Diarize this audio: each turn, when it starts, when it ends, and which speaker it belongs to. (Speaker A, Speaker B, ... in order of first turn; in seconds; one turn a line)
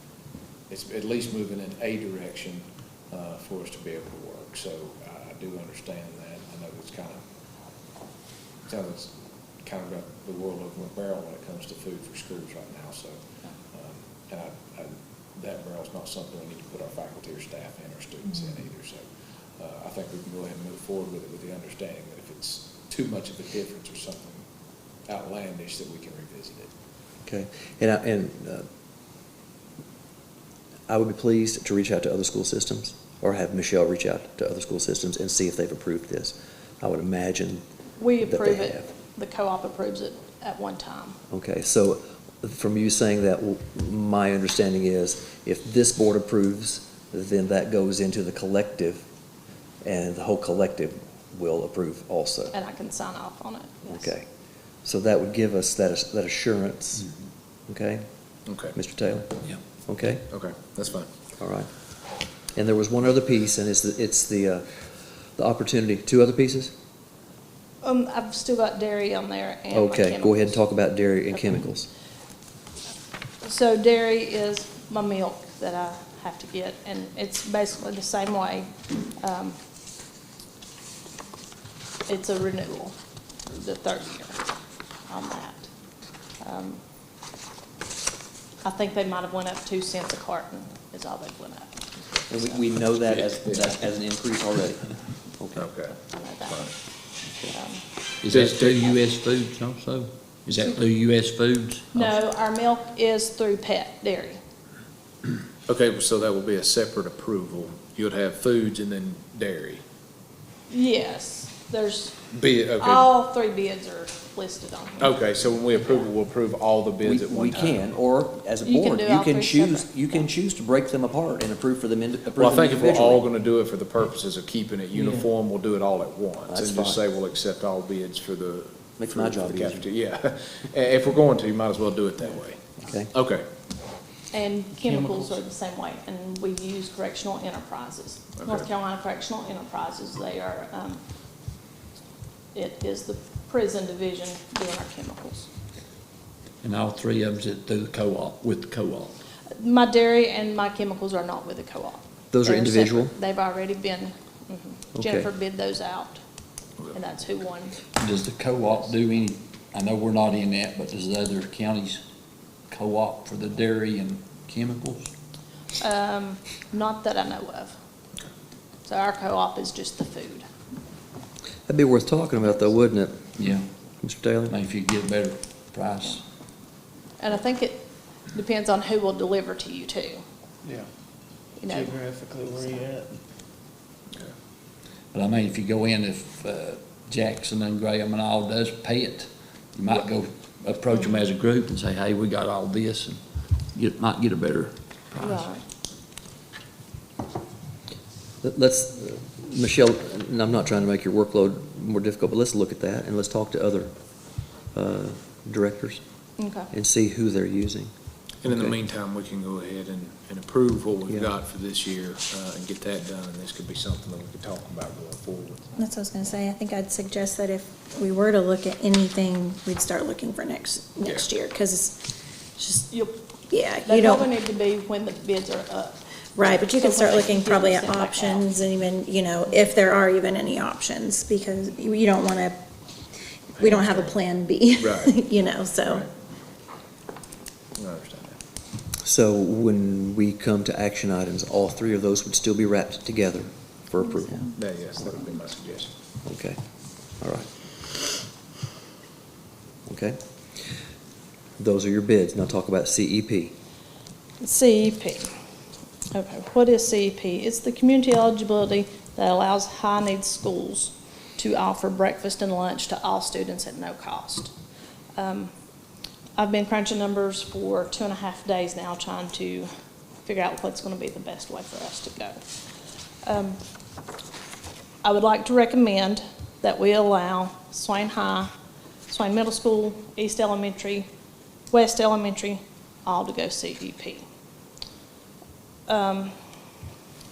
Speaker A: 0.7-7.2
Speaker A: 8.6-24.5
Speaker A: 25.1-26.7
Speaker B: 27.2-28.7
Speaker B: 30.9-37.6
Speaker C: 38.0-41.2
Speaker B: 38.2-38.8
Speaker B: 41.3-49.0
Speaker B: 49.8-52.5
Speaker C: 52.5-54.1
Speaker B: 53.9-54.2
Speaker B: 54.8-57.1
Speaker B: 57.7-58.0
Speaker A: 58.5-58.7
Speaker B: 58.7-60.2
Speaker A: 60.3-61.1
Speaker B: 61.4-61.7
Speaker B: 62.5-64.8
Speaker B: 65.3-66.7
Speaker C: 67.8-70.6
Speaker B: 69.7-71.9
Speaker C: 71.3-71.7
Speaker C: 73.4-79.5
Speaker C: 82.1-84.4
Speaker C: 85.0-86.8
Speaker C: 88.6-92.6
Speaker B: 92.3-95.7
Speaker A: 93.4-93.7
Speaker A: 95.5-96.0
Speaker C: 96.1-97.8
Speaker D: 98.2-102.1
Speaker A: 98.3-98.8
Speaker C: 101.9-104.4
Speaker A: 105.7-109.8
Speaker C: 110.7-115.3
Speaker A: 112.3-113.1
Speaker A: 115.0-117.8
Speaker B: 117.0-123.2
Speaker C: 118.6-120.3
Speaker A: 122.3-133.4
Speaker E: 125.0-125.3
Speaker B: 126.5-127.0
Speaker B: 129.0-129.8
Speaker B: 132.8-133.1
Speaker C: 134.3-141.0
Speaker E: 134.8-135.3
Speaker A: 138.4-138.7
Speaker C: 142.5-145.5
Speaker D: 146.6-149.2
Speaker C: 149.6-156.2
Speaker B: 152.3-153.1
Speaker B: 154.9-155.3
Speaker C: 156.8-157.8
Speaker D: 158.0-162.0
Speaker D: 162.7-165.1
Speaker C: 165.8-167.8
Speaker C: 168.8-170.4
Speaker B: 171.7-173.3
Speaker D: 173.4-173.7
Speaker B: 174.0-174.5
Speaker D: 174.5-176.2
Speaker C: 177.2-180.2
Speaker C: 181.6-182.0
Speaker E: 181.7-183.2
Speaker C: 182.5-182.8
Speaker D: 185.1-193.2
Speaker D: 193.7-195.4
Speaker C: 195.2-195.6
Speaker B: 198.4-203.9
Speaker B: 204.7-206.0
Speaker C: 206.4-206.7
Speaker B: 206.7-207.9
Speaker A: 208.4-215.8
Speaker B: 208.5-208.7
Speaker F: 215.8-222.9
Speaker A: 221.0-221.3
Speaker C: 222.9-228.4
Speaker F: 223.5-224.3
Speaker F: 226.4-232.6
Speaker F: 233.6-236.1
Speaker A: 233.6-234.1
Speaker A: 234.8-235.2
Speaker A: 235.8-236.1
Speaker A: 237.8-238.4
Speaker B: 239.0-244.4
Speaker A: 244.5-245.9
Speaker B: 246.2-246.6
Speaker B: 247.1-247.5
Speaker B: 249.8-250.2
Speaker B: 251.6-253.5
Speaker C: 254.4-255.3
Speaker C: 256.1-264.5
Speaker C: 265.1-265.5
Speaker C: 266.4-269.7
Speaker C: 270.2-272.4
Speaker C: 273.2-273.6
Speaker C: 275.0-278.5
Speaker C: 279.1-281.1
Speaker C: 281.7-284.2
Speaker C: 285.9-286.3